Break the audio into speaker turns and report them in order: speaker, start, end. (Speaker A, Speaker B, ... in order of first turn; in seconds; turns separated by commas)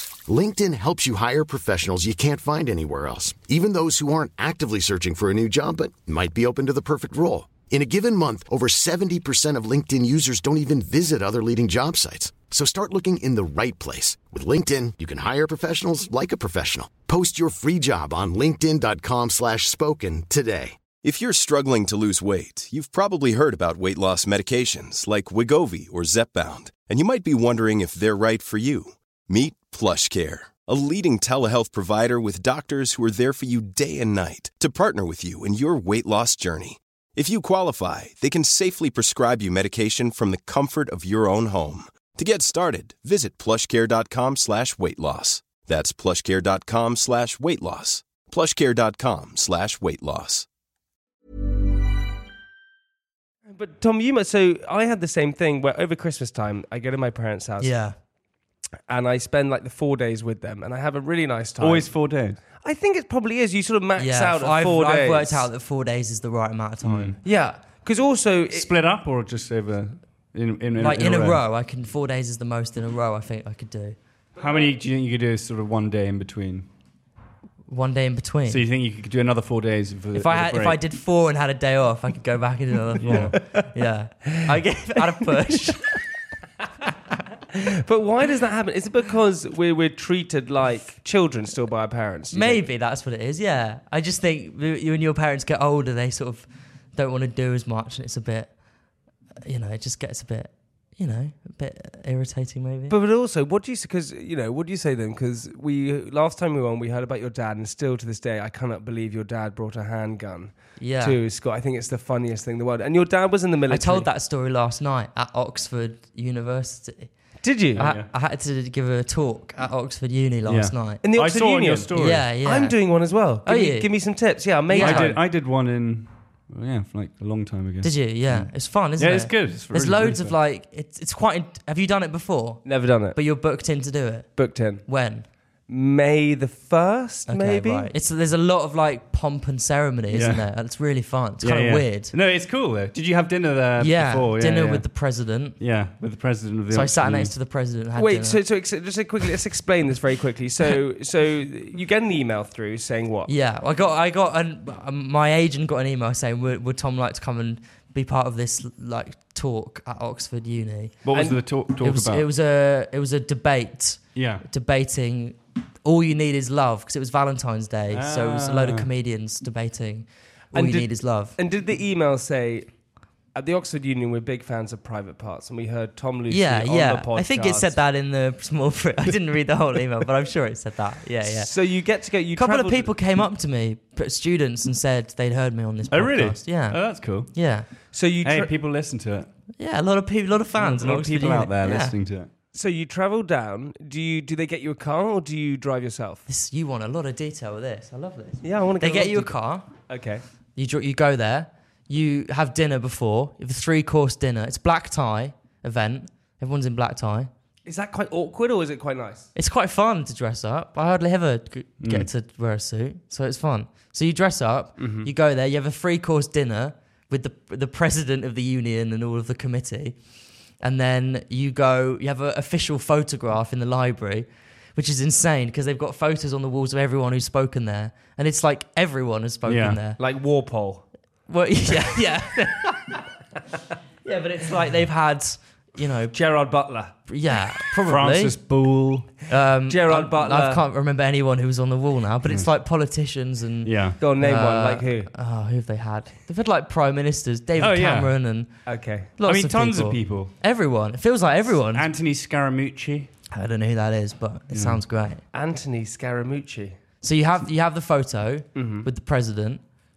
Speaker A: 0.2-20.8, Speaker B: 21.0-50.5, Speaker C: 53.5-57.8, Speaker D: 57.6-57.9, Speaker C: 58.9-65.5, Speaker E: 61.6-62.4, Speaker D: 64.0-67.2, Speaker E: 66.8-67.2, Speaker C: 67.2-68.7, Speaker E: 68.5-71.4, Speaker D: 70.8-74.0, Speaker E: 74.4-76.7, Speaker C: 74.4-74.7, Speaker D: 77.7-78.6, Speaker E: 78.5-80.8, Speaker D: 80.1-85.9, Speaker E: 83.0-83.3, Speaker C: 83.0-83.6, Speaker C: 87.5-92.6, Speaker D: 92.3-98.5, Speaker D: 99.4-102.9, Speaker C: 102.9-114.1, Speaker D: 110.8-111.2, Speaker D: 113.7-121.0, Speaker C: 117.4-117.8, Speaker E: 117.7-118.1, Speaker E: 120.5-122.3, Speaker C: 121.0-125.2, Speaker D: 121.9-123.9, Speaker D: 124.7-125.2, Speaker E: 124.8-130.3, Speaker D: 127.8-135.2, Speaker C: 132.6-133.2, Speaker C: 134.3-134.8, Speaker C: 135.7-137.9, Speaker D: 137.3-142.1, Speaker E: 140.1-140.5, Speaker E: 141.4-144.9, Speaker D: 143.8-145.6, Speaker E: 145.6-147.3, Speaker D: 146.7-148.4, Speaker C: 147.9-153.3, Speaker D: 153.3-161.0, Speaker E: 161.0-162.3, Speaker C: 161.1-161.4, Speaker D: 161.8-171.3, Speaker E: 164.1-164.4, Speaker E: 167.9-168.9, Speaker C: 170.5-172.7, Speaker C: 173.3-177.7, Speaker D: 176.3-181.5, Speaker C: 181.2-182.9, Speaker D: 182.3-187.7, Speaker E: 185.9-187.3, Speaker E: 187.9-189.3, Speaker C: 187.9-188.5, Speaker D: 189.6-191.9, Speaker C: 190.6-191.0, Speaker E: 190.7-192.3, Speaker C: 192.5-196.2, Speaker D: 196.3-199.7, Speaker C: 198.4-200.2, Speaker D: 200.6-207.3, Speaker C: 207.6-209.3, Speaker D: 209.3-220.0, Speaker E: 211.8-212.1, Speaker E: 214.8-215.1, Speaker D: 220.6-230.0, Speaker E: 229.4-229.8, Speaker C: 230.0-230.9, Speaker D: 231.3-232.9, Speaker D: 234.0-236.2, Speaker C: 236.1-237.0, Speaker D: 237.1-238.4, Speaker E: 237.8-239.1, Speaker D: 239.3-248.5, Speaker C: 239.7-240.6, Speaker E: 242.2-242.5, Speaker E: 243.6-244.0, Speaker C: 244.0-245.1, Speaker E: 247.6-248.1, Speaker C: 248.7-249.2, Speaker D: 249.2-251.9, Speaker E: 249.2-250.3, Speaker E: 251.7-253.1, Speaker D: 253.3-255.2, Speaker E: 254.5-254.8, Speaker C: 255.3-256.8, Speaker D: 257.0-259.6, Speaker C: 258.5-258.9